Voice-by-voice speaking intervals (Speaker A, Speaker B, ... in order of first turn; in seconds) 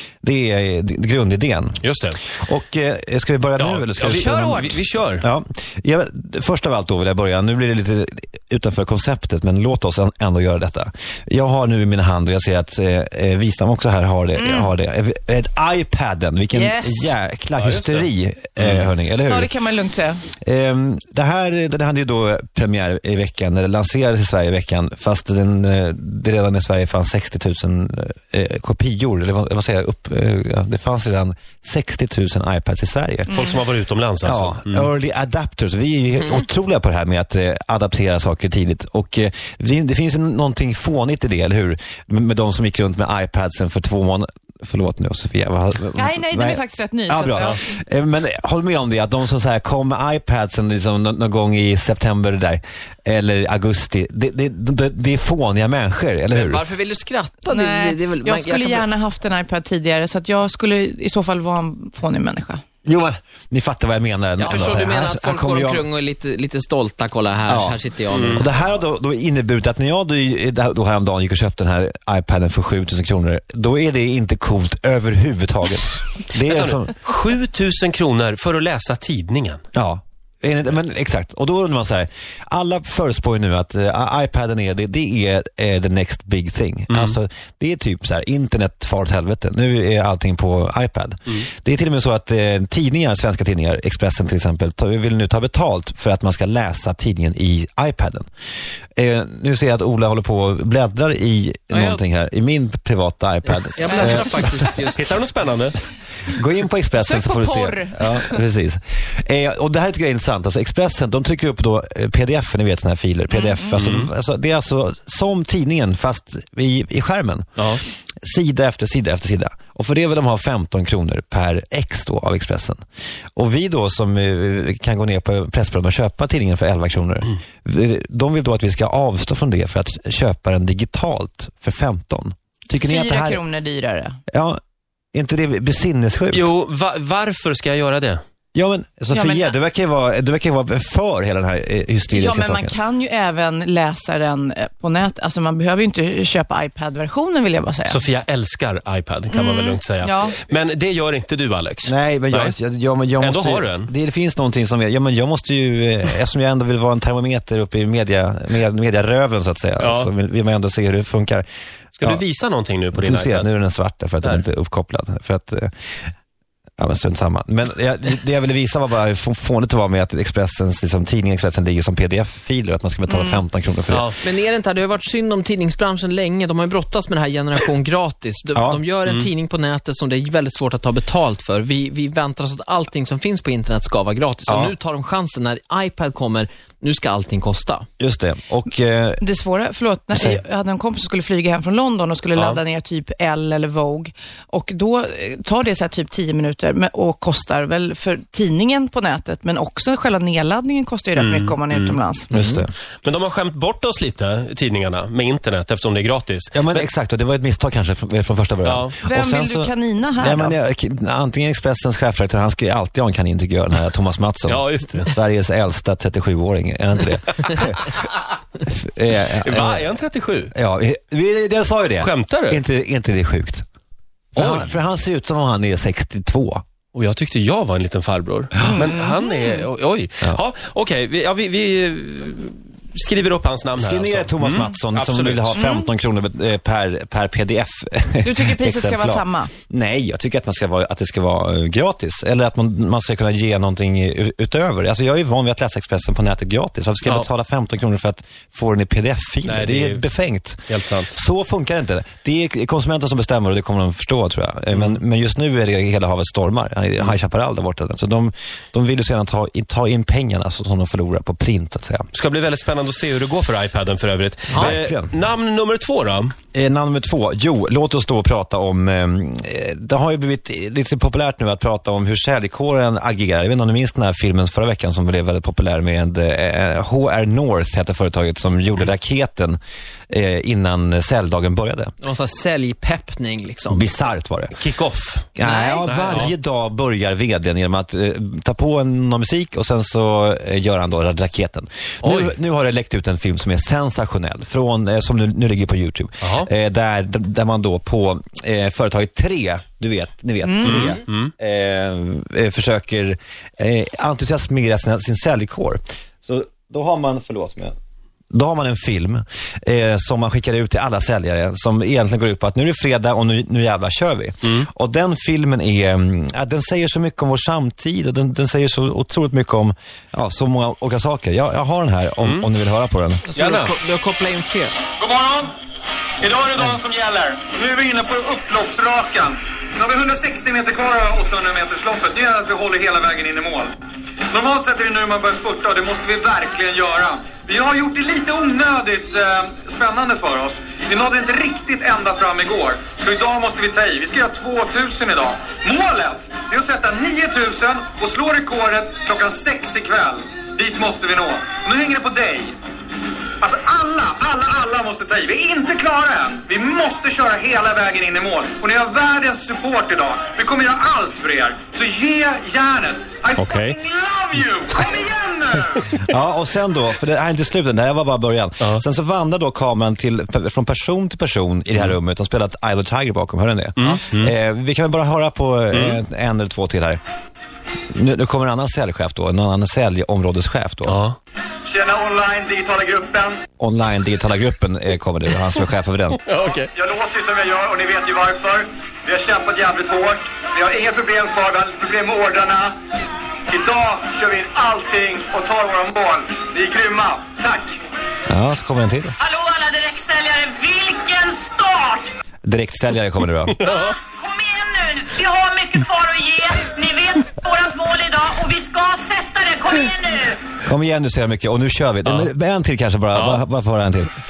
Speaker A: 0.2-1.8, 2.4-4.6, 5.2-19.5, 20.4-33.5, 34.2-56.6, 62.9-65.9, 67.5-67.8, 68.3-76.9, 79.7-98.2, 99.0-104.7, 106.3-117.5, 118.2-122.8, 123.4-133.4, 134.3-134.6, 135.1-136.5, 138.5-142.8, 151.8-161.5, 162.9-165.7, 166.8-174.1, 178.6-178.8, 184.5-184.8, 188.0-189.2, 190.1-190.4, 202.3-202.7, 206.5-218.0, 218.7-219.9, 220.5-223.7, 224.3-226.6, 233.8-262.1, 264.5-265.1, 266.5-279.6, 280.1-281.9, 283.7-284.6, 285.4-307.8, 308.3-323.2, 366.0-377.0, 377.9-381.0, 383.6-386.2, 398.3-399.1, 402.4-403.6, 410.6-414.1
Speaker B: 1.8-2.2, 3.6-5.2, 17.6-18.9, 33.3-34.9, 68.1-68.5, 76.4-79.6, 86.9-87.2, 105.0-105.8, 113.8-114.1, 117.6-117.8, 136.3-138.2, 147.9-152.6, 153.2-153.9, 159.8-160.1, 162.0-163.5, 173.9-174.2, 192.4-192.6, 201.2-206.9, 208.6-209.0, 214.5-215.2, 219.4-220.5, 222.0-222.6, 224.4-224.7, 226.9-235.6, 249.4-250.1, 250.7-251.2, 254.7-255.0, 262.1-266.4, 284.6-285.3, 285.9-286.3, 292.0-292.4, 296.2-296.5, 300.6-301.3, 322.2-322.5, 323.4-323.7, 363.4-363.8, 373.8-374.3, 375.7-376.0, 380.9-381.2, 386.3-386.7, 403.5-404.0, 412.1-412.3, 413.1-413.4
Speaker C: 4.2-4.8, 14.4-14.7, 16.6-17.1, 19.2-20.2, 45.9-47.6, 57.5-62.6, 103.9-104.2, 107.0-108.4, 113.3-113.9, 132.8-134.2, 139.1-139.5, 142.2-148.0, 149.3-150.4, 173.1-173.4, 189.2-202.3, 209.0-210.6, 228.7-229.6, 235.5-235.9, 238.2-239.5, 300.4-300.8
Speaker D: 56.3-58.9, 64.4-68.6, 101.7-102.0, 103.8-105.1, 174.2-187.8, 282.0-283.9, 285.4-286.2, 323.3-324.8
Speaker E: 325.0-325.5, 326.2-333.7, 334.3-352.5, 353.4-366.0, 381.6-383.4, 386.8-392.7, 393.5-397.8
Speaker F: 399.2-402.1, 403.7-410.4